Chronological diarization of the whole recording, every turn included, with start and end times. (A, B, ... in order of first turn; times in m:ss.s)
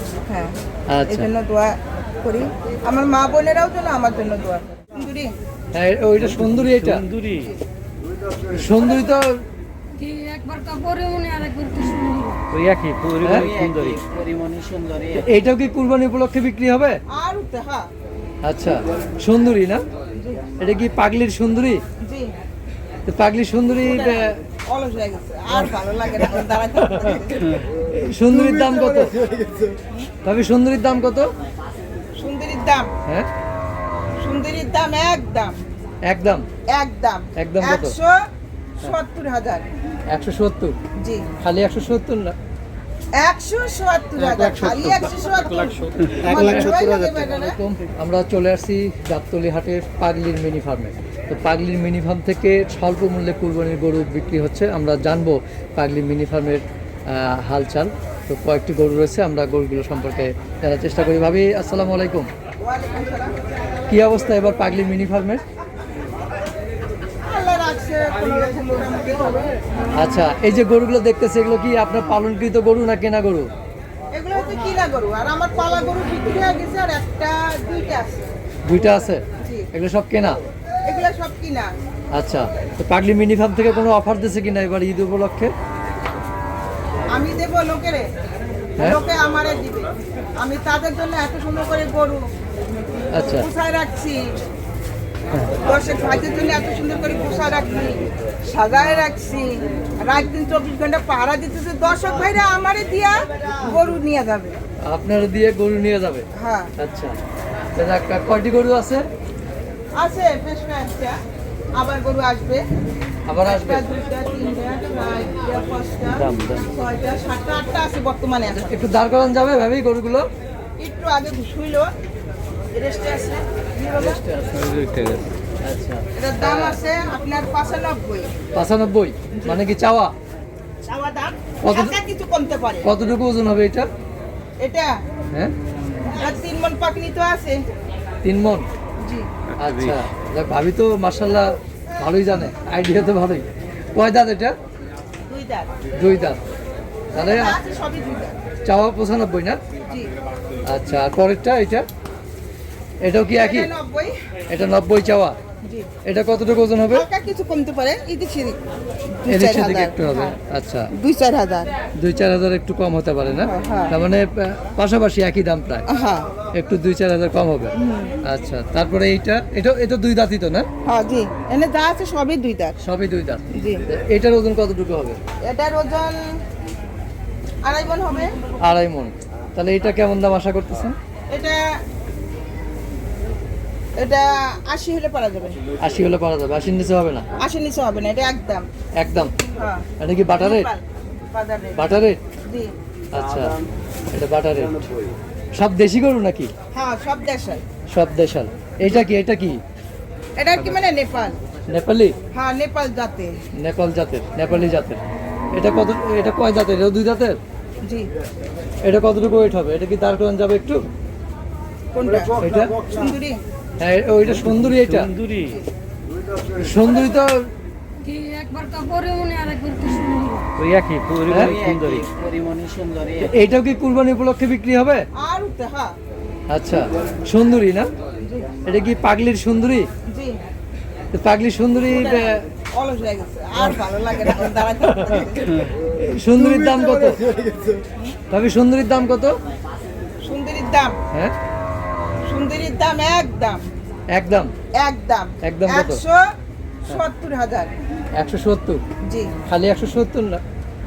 0:00.3-0:00.5 A
0:00.9-0:01.3 B
0:01.1-0:05.3 A
0:05.7-0:07.0 B
0:06.3-0:07.5 C
0:08.5-0:09.4 B
0:10.0-0:12.4 D
0:12.5-0:14.0 C
0:13.2-0:13.5 B
0:13.3-0:15.2 E
0:15.2-0:17.0 B
0:17.1-0:17.9 A
0:18.4-0:19.8 B
0:20.2-0:20.4 A
0:20.6-0:21.8 B
0:22.0-0:22.3 A
0:23.1-0:24.4 B
0:23.9-0:27.7 A
0:26.4-0:29.2 B
0:30.2-0:31.3 B
0:32.2-0:32.9 A
0:34.2-0:35.6 A
0:36.1-0:36.4 B
0:36.7-0:38.1 A
0:37.4-0:38.0 B
0:38.8-0:39.6 A
0:40.1-0:40.7 B
0:41.0-0:41.3 A
0:41.4-0:42.3 B
0:43.2-0:47.6 A
0:44.2-0:45.0 C
0:45.7-0:46.4 C
0:46.2-0:47.0 E
0:46.3-1:02.3 B
1:02.6-1:03.3 A
1:03.9-1:05.4 B
1:07.2-1:09.9 A
1:09.9-1:13.5 B
1:14.1-1:18.2 A
1:18.6-1:20.4 B
1:18.8-1:19.7 A
1:20.9-1:21.7 A
1:22.1-1:25.5 B
1:27.1-1:28.1 A
1:28.8-1:32.2 A
1:33.1-1:33.5 B
1:33.3-1:34.2 A
1:35.6-1:44.5 A
1:44.8-1:46.2 B
1:46.4-1:46.7 A
1:46.8-1:47.2 B
1:47.7-1:49.0 B
1:50.0-1:51.2 A
1:51.7-1:52.6 A
1:53.3-1:53.8 B
1:53.4-1:58.8 A
1:56.2-1:56.6 C
1:58.5-2:00.3 B
2:00.8-2:01.9 A
2:02.7-2:04.2 A
2:04.0-2:04.5 B
2:04.5-2:05.3 C
2:05.6-2:06.8 B
2:06.1-2:08.3 A
2:08.5-2:10.1 B
2:09.3-2:09.6 A
2:10.8-2:12.9 A
2:11.6-2:11.9 B
2:12.8-2:13.9 B
2:14.6-2:14.9 A
2:16.1-2:17.6 A
2:18.2-2:18.7 B
2:19.0-2:19.3 A
2:19.6-2:24.5 B
2:19.6-2:19.9 C
2:25.3-2:25.7 A
2:26.0-2:26.4 B
2:27.1-2:27.6 B
2:27.1-2:28.4 A
2:28.6-2:29.6 B
2:30.7-2:31.8 B
2:33.0-2:33.7 B
2:33.3-2:34.1 A
2:34.5-2:35.4 B
2:36.0-2:37.1 B
2:36.9-2:38.6 A
2:39.2-2:40.3 A
2:39.3-2:40.9 B
2:40.9-2:41.7 A
2:42.0-2:45.8 B
2:43.4-2:43.9 A
2:45.9-2:46.3 A
2:46.6-2:47.7 B
2:47.8-2:48.1 A
2:48.2-2:50.7 B
2:50.8-2:52.8 A
2:52.8-2:55.2 B
2:53.5-2:53.8 A
2:55.4-2:56.2 A
2:57.6-2:58.4 A
2:58.6-3:00.9 B
3:01.3-3:01.6 A
3:04.0-3:05.6 A
3:05.8-3:07.2 B
3:07.4-3:08.6 A
3:09.0-3:09.3 B
3:09.5-3:09.8 A
3:10.0-3:10.7 B
3:10.4-3:11.9 A
3:11.8-3:12.2 B
3:13.1-3:13.5 B
3:14.1-3:14.8 B
3:15.6-3:16.5 B
3:16.7-3:17.6 A
3:17.9-3:19.6 B
3:20.4-3:21.3 A
3:21.7-3:22.1 B
3:22.3-3:23.3 A
3:23.6-3:25.0 B
3:25.5-3:27.4 B
3:28.8-3:30.8 B
3:31.9-3:32.4 A
3:32.4-3:32.7 B
3:32.9-3:33.4 A
3:33.8-3:35.1 B
3:34.4-3:35.5 C
3:36.5-3:37.4 B
3:38.0-3:40.5 D
3:40.6-3:42.0 C
3:41.3-3:41.6 B
3:41.3-3:43.3 E
3:43.2-3:45.0 B
3:45.2-3:45.9 A
3:46.5-3:47.9 B
3:48.2-3:48.5 A
3:48.6-3:49.9 B
3:51.1-3:52.4 B
3:51.9-3:55.7 A
3:54.9-3:55.3 B
3:55.9-3:57.3 B
3:58.3-3:59.3 B
4:00.2-4:00.9 A
4:02.3-4:03.6 A
4:04.1-4:04.5 B
4:04.8-4:06.2 A
4:05.4-4:06.0 B
4:06.9-4:07.7 A
4:08.2-4:08.8 B
4:09.4-4:10.4 B